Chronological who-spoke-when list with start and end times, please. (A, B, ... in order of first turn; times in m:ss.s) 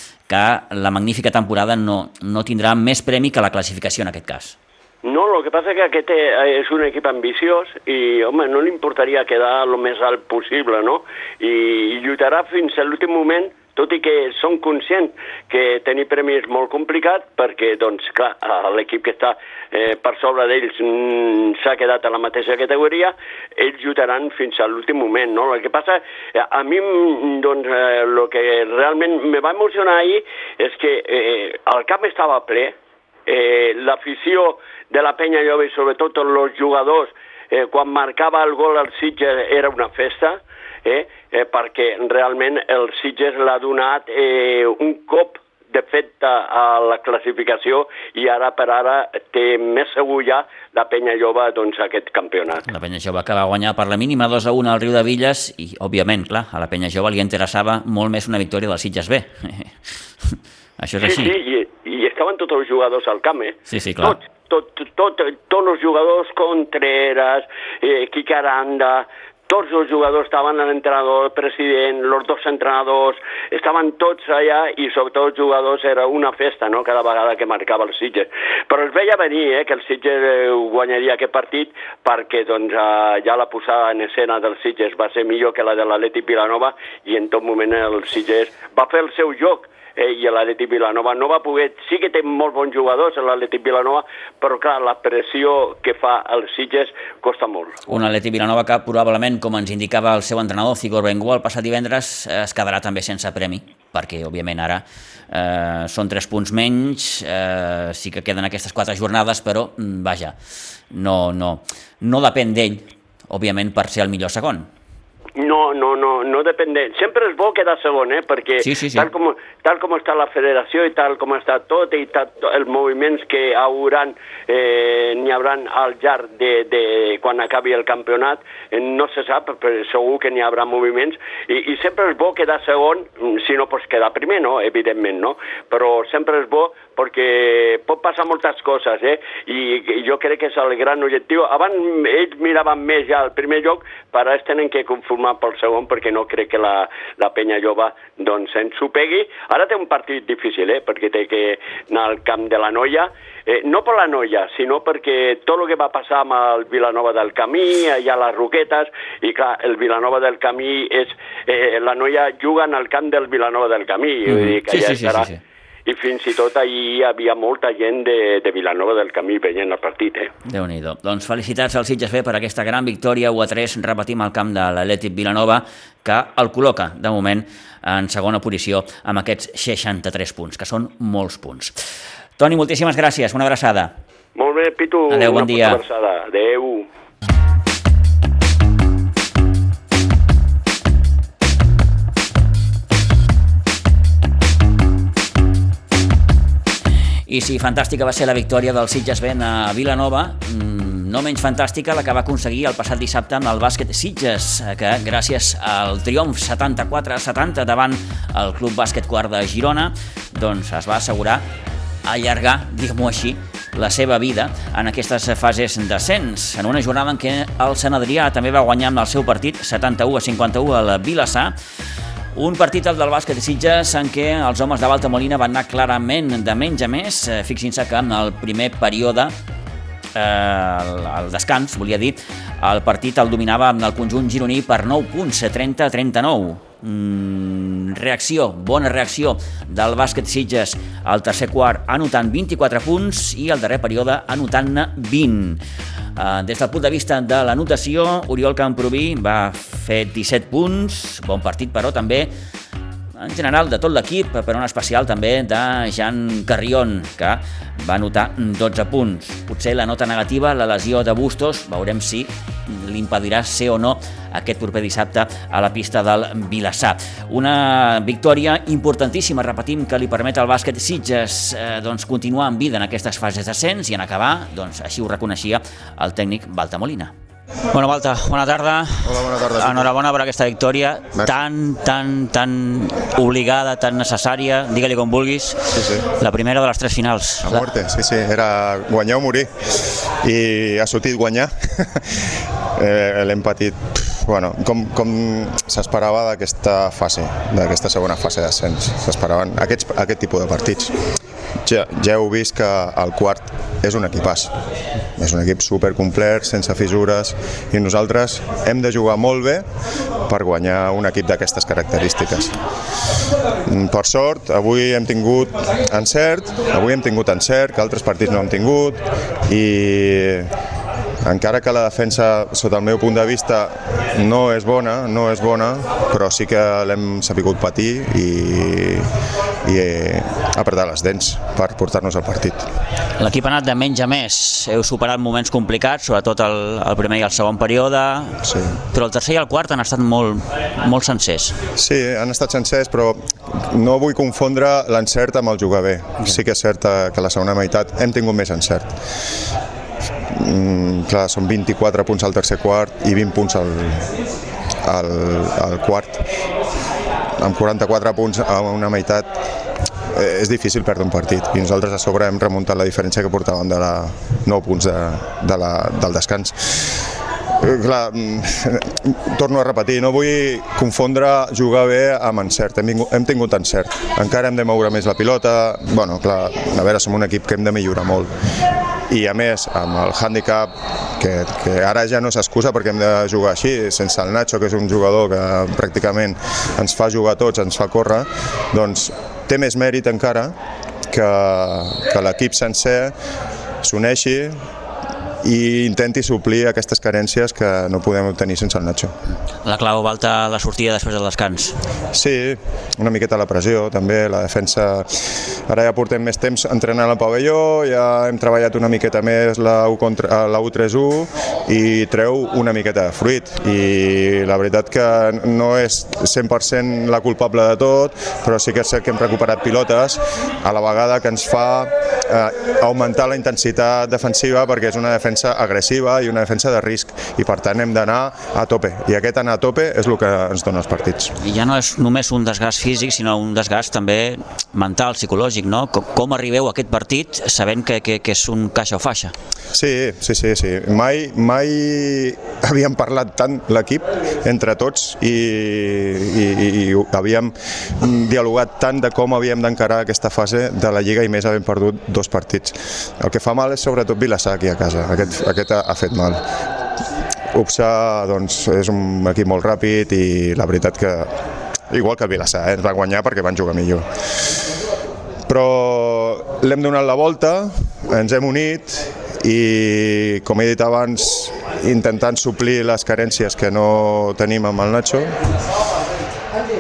0:00.3-0:04.6 A
0:05.0-0:32.8 B
0:33.3-0:52.7 B
0:52.7-1:01.3 A
1:01.0-1:37.8 B
1:03.7-1:04.2 A
1:37.9-1:50.4 A
1:50.9-1:54.7 A
1:55.4-2:45.3 B
1:58.6-1:59.1 A
2:44.3-2:45.4 A
2:45.9-2:50.3 B
2:50.5-3:01.7 A
3:02.4-3:03.9 A
3:04.4-3:06.9 B
3:05.1-3:05.8 A
3:17.3-3:31.4 A
3:32.0-3:41.6 A
3:42.4-3:49.3 A
3:50.2-4:05.6 A
4:06.2-4:12.3 A
4:13.2-4:37.1 A
4:37.7-4:47.7 A
4:39.0-4:39.9 C
4:45.7-4:46.1 C
4:47.4-4:49.5 C
4:50.2-5:00.9 C
5:01.6-5:04.5 C
5:05.2-5:09.6 C
5:10.2-5:12.6 C
5:13.7-5:20.5 C
5:21.2-5:29.1 C
5:29.6-5:32.7 C
5:33.2-5:41.6 A
5:38.4-5:38.8 C
5:41.8-5:49.0 C
5:50.3-5:54.2 C
5:54.8-5:56.3 C
5:57.4-5:59.3 C
6:00.1-6:06.9 C
6:07.6-6:18.3 C
6:19.1-6:30.5 C
6:31.1-6:33.2 C
6:33.8-6:34.6 C
6:35.4-6:39.1 C
6:39.6-6:41.8 A
6:42.1-7:11.3 C
7:11.4-7:19.3 A
7:19.7-7:36.4 C
7:37.5-7:41.3 C
7:41.9-7:44.1 C
7:45.5-7:55.4 C